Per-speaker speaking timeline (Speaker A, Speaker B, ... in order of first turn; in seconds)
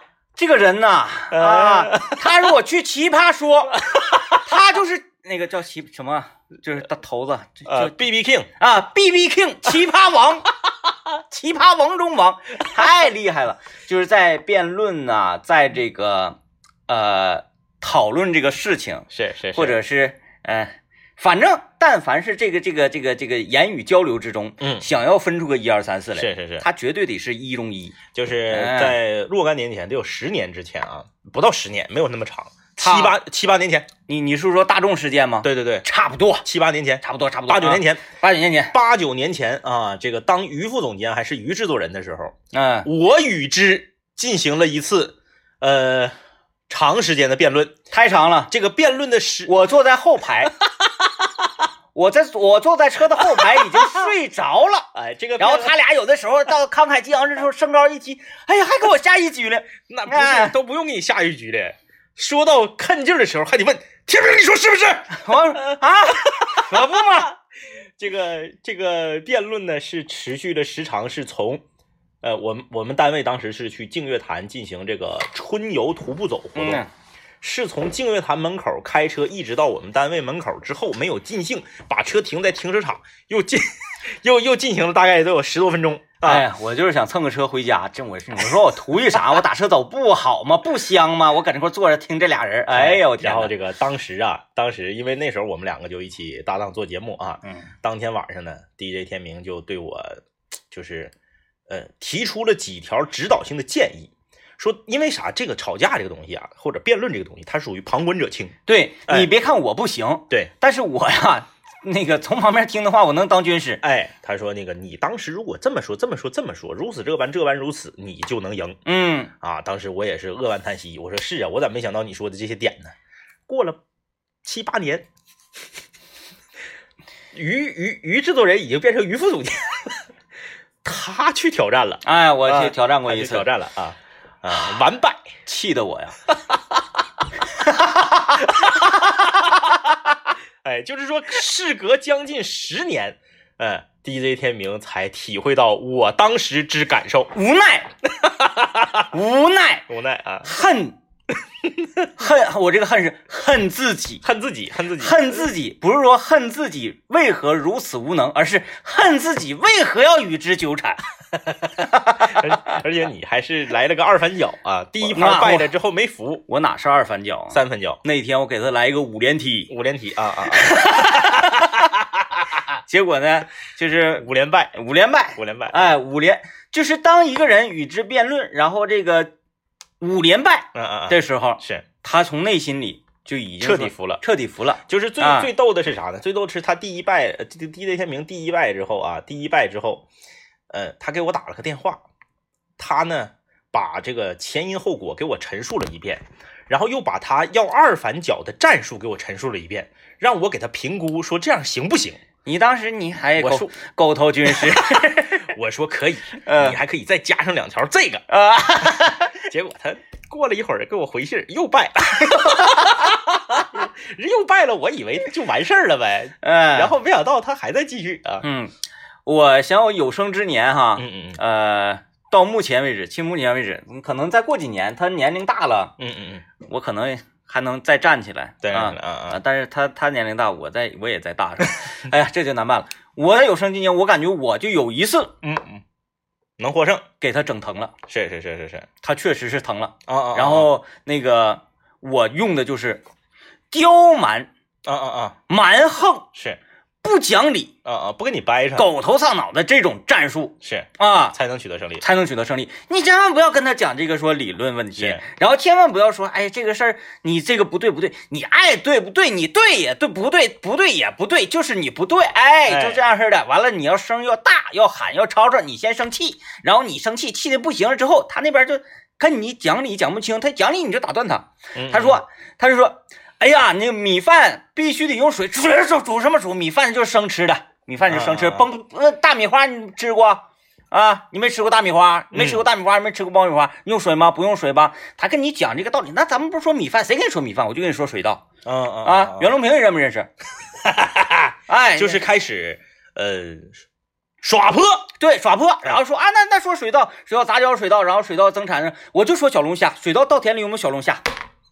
Speaker A: 0.4-3.8, 4.4-7.9, 8.6-10.5, 11.3-16.4, 16.9-28.0, 28.5-29.0, 32.8-33.2, 34.1-36.5, 37.0-38.7, 42.5-42.9, 47.9-48.5, 49.5-50.5, 52.0-54.9, 55.4-60.5, 65.1-67.3, 76.6-76.9, 86.2-93.5, 108.7-113.8, 118.9-119.3, 132.0-133.5, 135.5-136.2, 137.6-138.4, 147.3-147.9, 149.1-149.9, 150.4-151.0, 152.2-154.2, 155.0-161.0, 162.2-162.6, 165.0-165.7, 166.5-169.7, 170.5-171.8, 172.9-179.3, 180.0-185.5, 202.4-205.5, 206.5-206.8, 208.3-209.4, 216.4-216.9, 218.4-218.7, 219.3-225.9, 226.6-235.3, 237.2-237.9, 239.0-243.0, 243.7-244.5, 245.5-246.3, 247.0-247.7, 248.8-251.3, 252.0-288.4, 289.0-290.3, 291.7-292.2, 295.2-301.2
Speaker B: 1.3-2.2, 3.8-4.4, 7.7-8.5, 19.1-19.8, 24.6-24.9, 26.1-26.7, 28.1-33.9, 35.4-35.9, 36.4-38.1, 38.7-42.3, 42.9-46.2, 46.7-47.8, 48.5-49.5, 50.6-51.4, 53.2-54.1, 54.9-55.7, 59.9-67.3, 68.0-71.6, 72.2-76.8, 77.4-86.5, 92.7-101.1, 101.7-108.6, 113.8-118.8, 119.4-122.9, 123.5-123.8, 124.4-125.1, 127.3-130.0, 130.8-135.3, 138.4-139.9, 140.6-147.3, 148.1-149.1, 149.9-150.5, 151.6-152.1, 154.2-155.5, 161.5-166.4, 167.5-168.0, 169.7-172.6, 174.2-174.7, 175.4-175.9, 180.8-181.8, 183.6-184.2, 184.9-190.1, 190.7-192.0, 192.8-202.2, 203.4-203.7, 204.5-208.2, 209.3-218.5, 221.0-221.4, 226.0-226.5, 228.6-229.4, 235.4-235.8, 236.6-237.1, 238.1-238.9, 240.1-240.7, 244.9-245.4, 246.3-246.6, 247.8-248.9, 250.6-252.1, 255.0-255.2, 262.7-263.1, 271.8-272.2, 278.1-278.7, 282.3-282.6, 288.6-289.6, 290.8-293.8, 294.4-295.1